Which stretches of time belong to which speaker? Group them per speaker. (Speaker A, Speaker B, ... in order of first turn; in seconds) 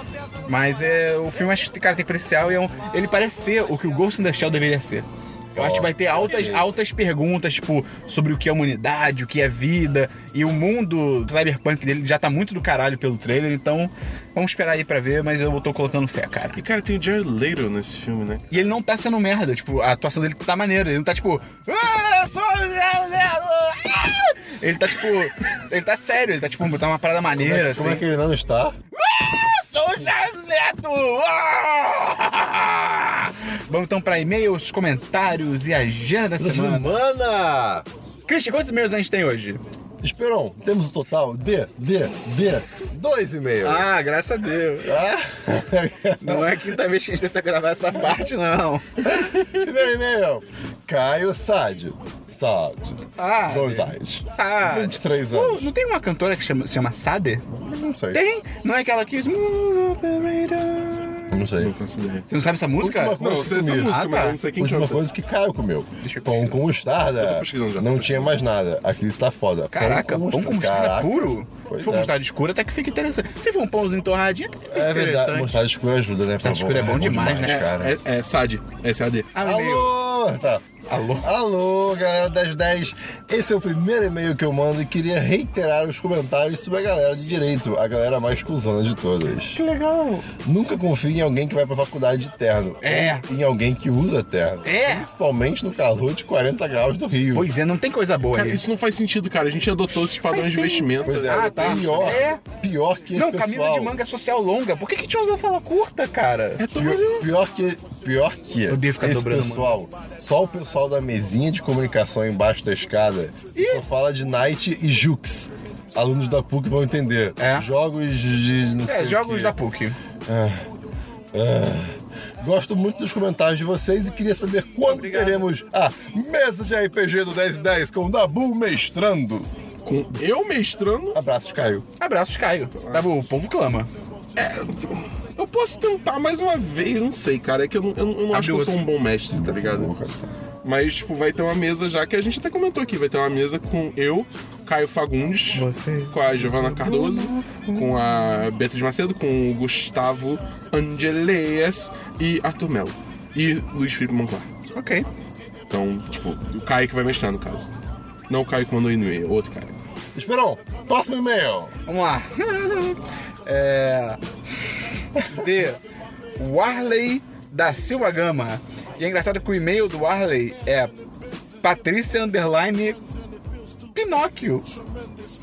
Speaker A: 0.5-16.6, 18.5-28.1, 28.9-37.0, 38.3-39.6, 43.6-45.0, 46.2-49.1, 53.2-57.5, 58.1-61.3, 62.3-64.4, 66.0-66.6, 69.7-75.7, 76.4-77.7, 79.3-79.9, 80.9-81.3, 89.5-90.3, 92.8-93.3, 94.7-95.1, 97.3-98.6, 100.3-102.4, 103.2-106.6, 108.7-109.7, 113.5-113.8, 117.4-117.7, 118.9-120.0, 124.9-125.5, 132.0-133.9, 138.3-138.8, 145.5-147.9, 154.7-155.1, 161.9-164.2, 165.2-165.8, 166.4-170.9, 171.6-173.0, 173.9-174.7
Speaker B: 5.6-6.7, 27.4-28.8, 36.4-37.9, 40.0-44.1, 44.8-46.8, 49.0-55.7, 57.5-58.2, 61.3-61.8, 62.8-64.0, 64.5-72.2, 74.7-78.0, 79.4-80.7, 81.2-89.6, 90.4-97.5, 101.0-104.0, 106.8-119.5, 120.3-120.6, 121.3-129.5, 131.1-131.9, 139.3-140.3, 160.2-161.7
Speaker C: 16.6-18.5, 61.6-62.3, 63.2-65.0, 67.2-68.4, 77.4-79.3, 98.3-102.3, 106.6-107.3, 129.8-131.2, 132.8-133.1, 134.4-139.9, 140.6-154.5, 155.7-157.7, 158.3-159.8